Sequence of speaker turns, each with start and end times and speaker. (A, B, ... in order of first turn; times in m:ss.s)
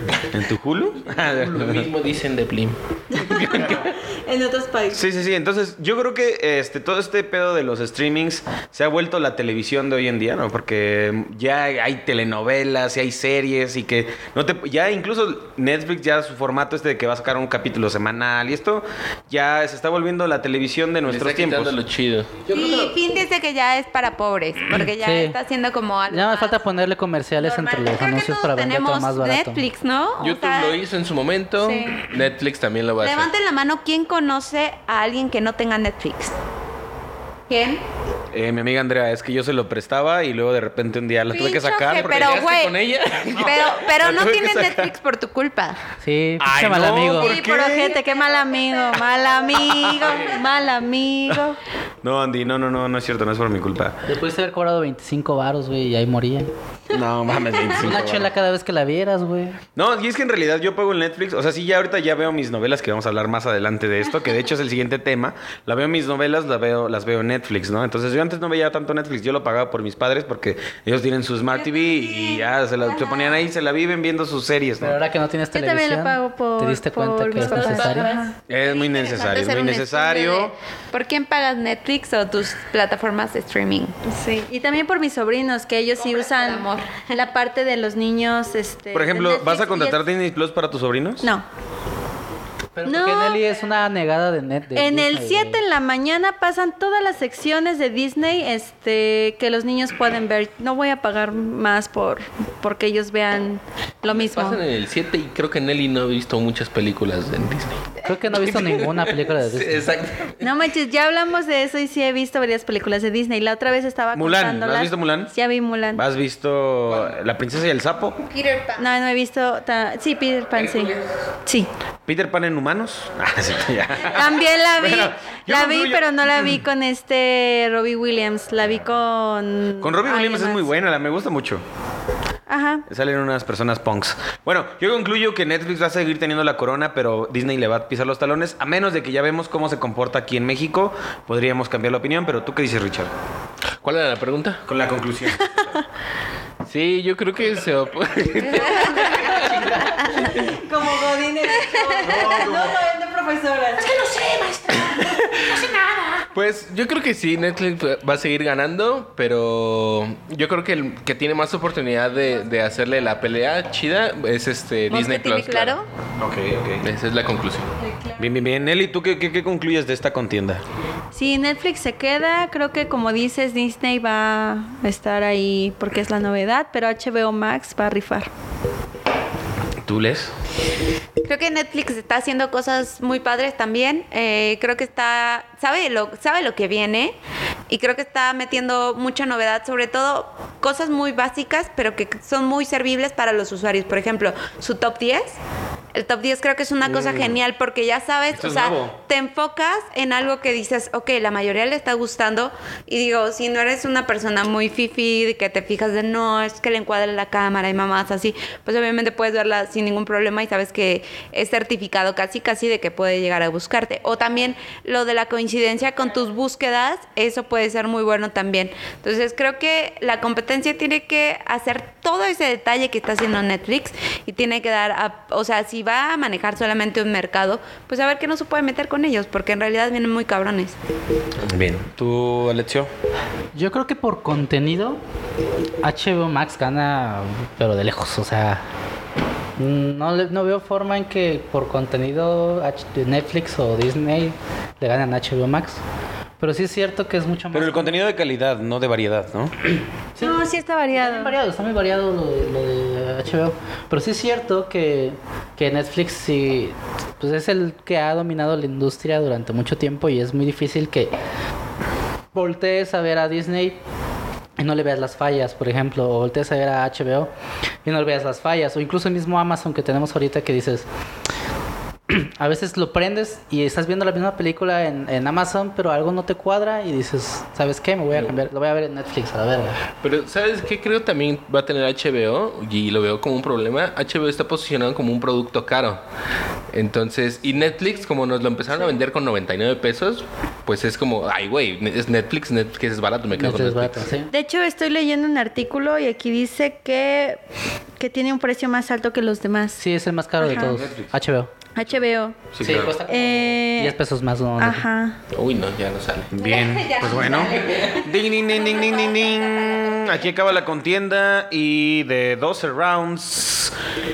0:00.3-0:01.9 A
0:01.1-0:03.9 B
0:03.1-0:05.0 C
0:04.9-0:21.8 A
0:21.0-0:23.0 B
0:22.5-0:26.6 D
0:24.8-0:25.4 E
0:26.1-0:29.6 E
0:27.4-0:30.8 D
0:30.2-0:33.3 B
0:31.6-0:32.1 D
0:33.0-0:36.3 D
0:37.5-0:37.8 D
0:38.3-0:42.4 A
0:41.3-0:45.8 D
0:41.9-0:43.9 B
0:44.0-0:44.9 A
0:46.0-0:47.3 E
0:46.4-0:48.0 A
0:47.1-0:51.6 C
0:47.7-0:50.3 D
0:49.6-0:50.1 A
0:50.0-0:50.4 B
0:52.0-0:54.0 A
0:54.0-0:56.5 E
0:56.9-0:58.3 A
0:57.8-0:59.6 E
0:59.8-1:15.0 A
1:11.6-1:13.4 D
1:14.8-1:18.1 E
1:15.5-1:18.3 C
1:17.4-1:23.9 D
1:18.5-1:20.5 A
1:24.0-1:30.0 C
1:26.0-1:27.2 D
1:28.9-1:31.3 A
1:32.8-1:35.6 E
1:32.8-1:33.4 C
1:34.7-1:44.6 C
1:44.1-1:50.5 B
1:48.0-1:49.9 E
1:50.4-1:56.0 C
1:54.1-1:55.3 A
1:55.9-1:58.2 A
1:58.3-1:58.9 D
1:58.8-2:00.9 C
2:00.5-2:01.1 B
2:02.1-2:06.6 A
2:04.1-2:10.7 C
2:09.8-2:11.6 A
2:12.5-2:12.8 C
2:12.9-2:23.1 A
2:23.8-2:24.6 B
2:24.6-2:25.5 A
2:26.6-2:29.8 B
2:28.6-2:29.2 D
2:30.0-2:30.3 D
2:30.1-2:35.2 C
2:31.5-2:32.1 D
2:32.0-2:32.8 A
2:34.9-2:35.6 B
2:36.3-2:45.8 B
2:44.9-2:45.9 D
2:46.2-2:46.9 A
2:46.8-2:47.7 B
2:47.8-2:48.3 C
2:48.2-2:50.6 A
2:51.1-2:58.3 C
2:59.8-3:00.3 A
3:01.2-3:07.2 D
3:07.7-3:15.4 D
3:15.9-3:50.8 D
3:16.8-3:17.4 A
3:18.3-3:19.0 A
3:51.4-3:52.9 A
3:53.5-3:55.0 E
3:55.8-3:58.6 E
3:59.6-4:05.8 E
4:06.4-4:07.9 E
4:07.5-4:09.5 A
4:10.2-4:21.1 E
4:10.2-4:11.4 C
4:22.3-4:23.8 E
4:24.6-4:27.3 E
4:27.8-4:30.9 E
4:32.1-4:39.8 E
4:40.0-4:46.0 B
4:46.7-4:54.1 B
4:53.3-4:54.3 E
4:54.3-4:57.4 C
4:58.0-4:59.8 C
4:59.8-5:01.5 E
5:00.4-5:00.8 C
5:00.5-5:01.2 A
5:01.8-5:02.5 C
5:02.5-5:03.0 A
5:02.6-5:04.8 E
5:03.1-5:04.0 C
5:04.6-5:05.2 C
5:05.3-5:06.3 B
5:06.3-5:13.8 A
5:06.4-5:10.3 D
5:07.6-5:08.0 B